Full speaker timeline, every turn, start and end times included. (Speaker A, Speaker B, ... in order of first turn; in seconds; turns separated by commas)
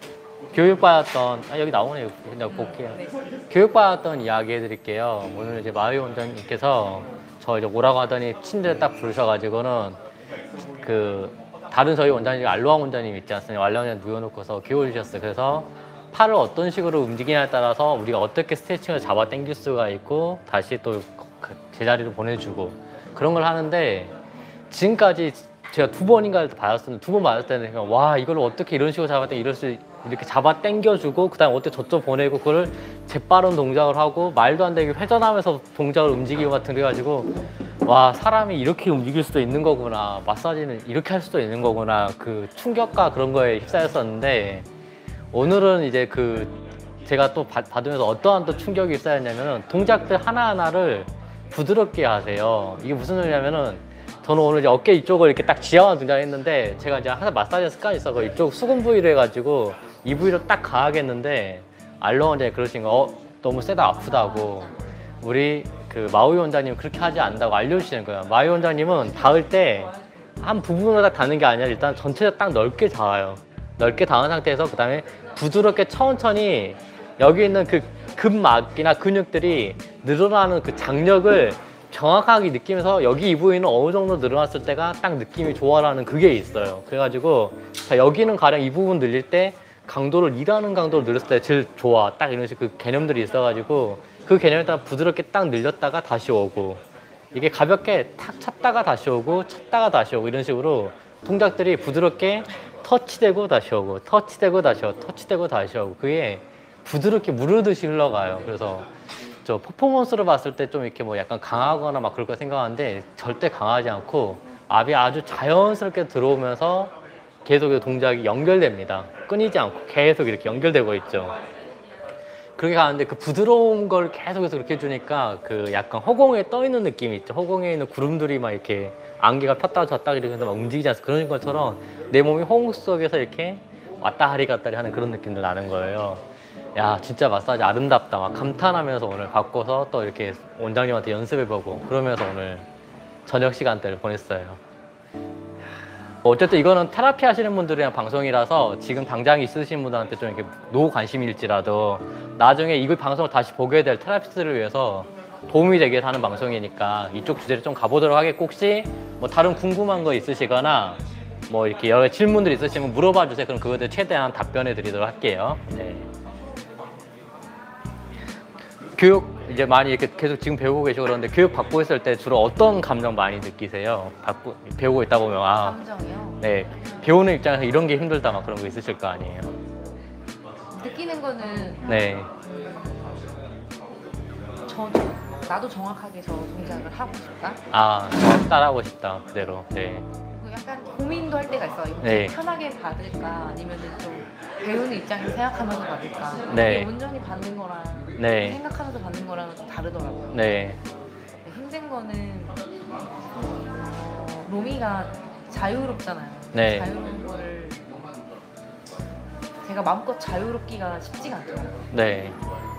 Speaker A: 0.5-3.0, Speaker B: 2.5-3.2, Speaker A: 3.5-10.0, Speaker A: 10.8-24.1, Speaker A: 24.7-37.3, Speaker A: 37.9-44.7, Speaker A: 45.3-96.8, Speaker B: 64.0-65.2, Speaker A: 97.3-108.9, Speaker A: 109.4-116.9, Speaker A: 117.5-121.4, Speaker A: 122.6-136.2, Speaker A: 136.8-142.7, Speaker A: 143.3-144.6, Speaker A: 146.2-166.1, Speaker A: 169.0-175.8, Speaker B: 175.6-176.4, Speaker A: 176.4-179.5, Speaker B: 180.7-183.4, Speaker A: 181.8-182.3, Speaker B: 184.7-187.6, Speaker A: 187.7-190.1, Speaker B: 190.3-200.5, Speaker A: 192.0-192.3, Speaker A: 196.5-196.9, Speaker A: 198.2-198.6, Speaker A: 200.3-200.8, Speaker B: 201.4-202.6, Speaker B: 203.7-207.9, Speaker A: 206.5-206.9, Speaker B: 209.6-211.9, Speaker A: 211.9-212.4